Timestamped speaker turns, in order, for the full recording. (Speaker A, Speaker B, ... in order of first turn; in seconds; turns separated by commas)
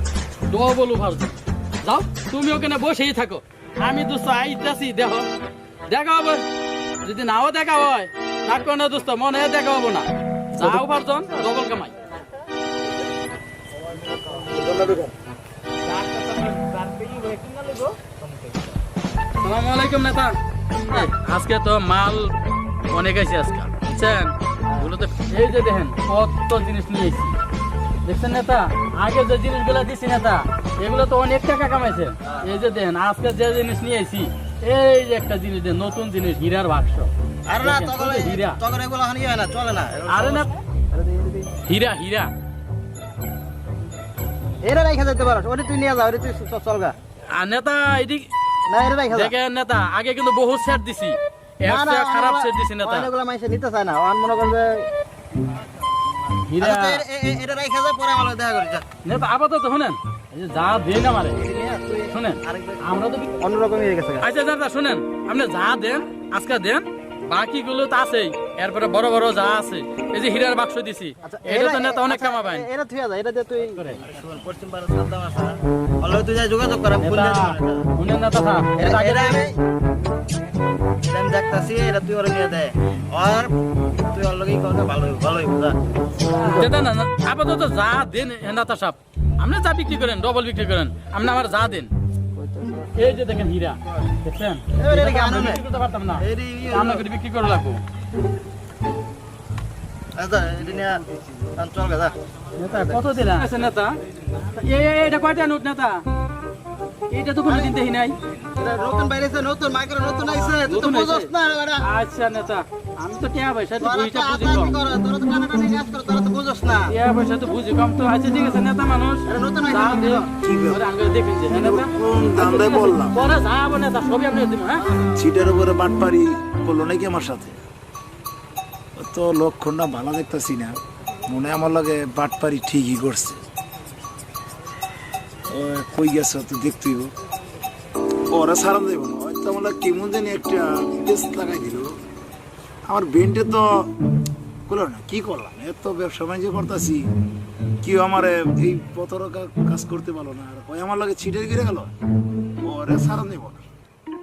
Speaker A: 0.5-5.3, Speaker A: 5.9-6.5, Speaker A: 7.0-12.0, Speaker B: 10.6-10.9, Speaker B: 14.0-15.2, Speaker C: 15.9-18.6, Speaker A: 19.4-20.4, Speaker A: 20.9-22.3, Speaker A: 22.9-27.4, Speaker A: 28.0-38.6, Speaker C: 32.2-32.5, Speaker C: 37.5-41.5, Speaker A: 40.1-40.5, Speaker A: 41.6-42.3, Speaker C: 44.6-47.0, Speaker A: 47.3-48.3, Speaker C: 48.7-49.3, Speaker A: 49.1-53.1, Speaker C: 51.7-54.9, Speaker A: 56.4-57.0, Speaker C: 56.6-58.9, Speaker A: 59.0-61.4, Speaker C: 61.3-64.3, Speaker A: 62.1-63.3, Speaker A: 64.2-72.7, Speaker C: 71.2-77.9, Speaker A: 73.7-74.0, Speaker A: 77.0-79.3, Speaker C: 78.8-79.6, Speaker C: 81.0-86.7, Speaker A: 86.3-91.9, Speaker C: 92.3-93.1, Speaker A: 93.0-97.8, Speaker C: 94.8-95.6, Speaker C: 96.2-97.1, Speaker C: 100.2-103.1, Speaker A: 102.6-106.0, Speaker A: 107.1-108.2, Speaker C: 107.5-107.8, Speaker C: 108.6-111.9, Speaker A: 110.6-114.8, Speaker C: 113.8-117.0, Speaker A: 116.9-124.9, Speaker C: 119.3-120.3, Speaker B: 120.4-120.8, Speaker B: 121.5-123.2, Speaker C: 124.8-125.3, Speaker B: 125.1-127.6, Speaker B: 129.0-133.4, Speaker B: 135.5-137.1, Speaker B: 138.3-141.9, Speaker B: 142.9-143.9, Speaker B: 144.7-147.1, Speaker B: 147.8-151.9, Speaker B: 152.6-153.7